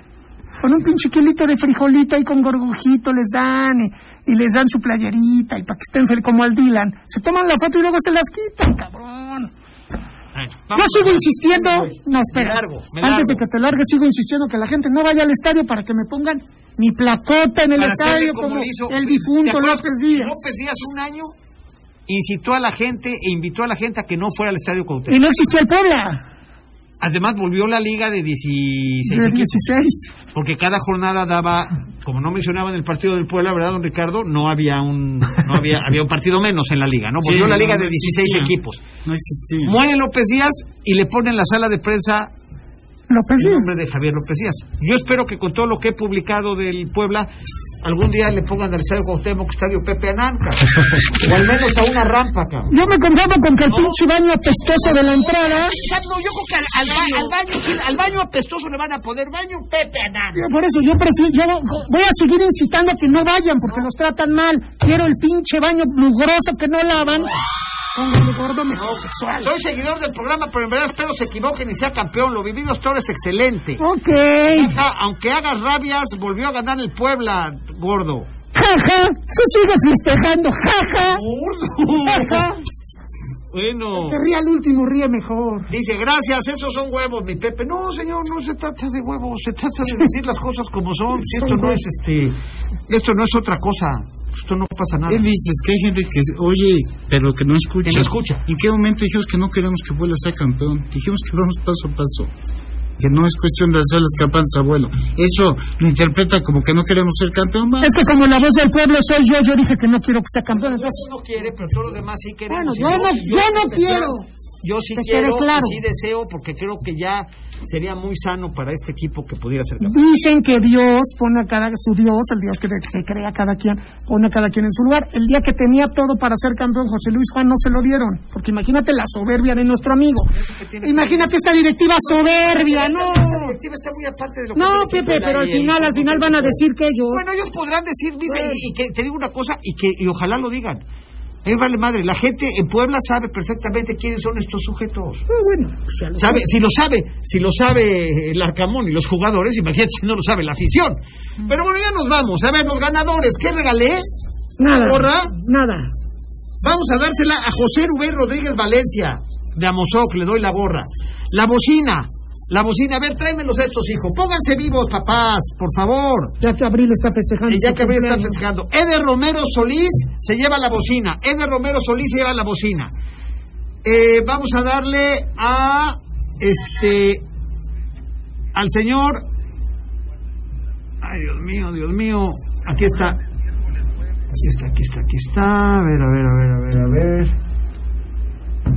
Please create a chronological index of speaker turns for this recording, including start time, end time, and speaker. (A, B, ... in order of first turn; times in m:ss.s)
0:00.6-0:09.5 A
0:10.3-0:13.4 B
0:10.7-0:20.4 A
0:17.8-0:21.3 B
0:22.1-0:25.2 B
0:25.1-0:26.2 A
0:27.0-0:29.6 B
0:29.1-0:30.1 A
0:30.3-0:38.8 B
0:37.2-0:38.5 C
0:39.0-0:39.8 C
0:39.6-0:42.3 B
0:43.1-0:43.7 A
0:43.4-0:47.3 B
0:47.8-0:52.7 B
0:52.7-0:55.8 A
0:53.7-0:54.0 B
0:55.2-1:00.4 B
0:56.9-0:57.3 A
1:00.3-1:07.3 A
1:07.9-1:09.5 A
1:08.7-1:13.8 B
1:13.8-1:14.8 A
1:14.5-1:18.3 B
1:18.5-1:21.2 A
1:20.9-1:22.5 B
1:22.0-1:22.6 A
1:23.5-1:24.2 B
1:23.9-1:25.7 A
1:25.7-1:32.4 B
1:31.2-1:31.8 A
1:32.9-1:35.3 B
1:35.1-1:42.3 C
1:37.8-1:38.4 B
1:43.0-1:48.0 C
1:47.8-1:51.0 A
1:50.5-2:00.0 B
1:52.5-1:54.3 A
1:55.0-1:55.8 A
1:59.8-2:10.3 A
2:10.3-2:20.8 B
2:10.8-2:13.5 A
2:14.6-2:17.2 A
2:18.3-2:18.6 A
2:21.4-2:25.2 B
2:25.3-2:26.4 A
2:26.2-2:34.0 B
2:34.6-2:35.9 A
2:34.7-2:35.3 B
2:36.6-2:46.4 B
2:46.4-2:48.4 A
2:47.5-2:52.9 B
2:53.8-2:57.2 B
2:58.5-2:59.2 B
3:01.0-3:03.2 B
3:04.3-3:07.3 B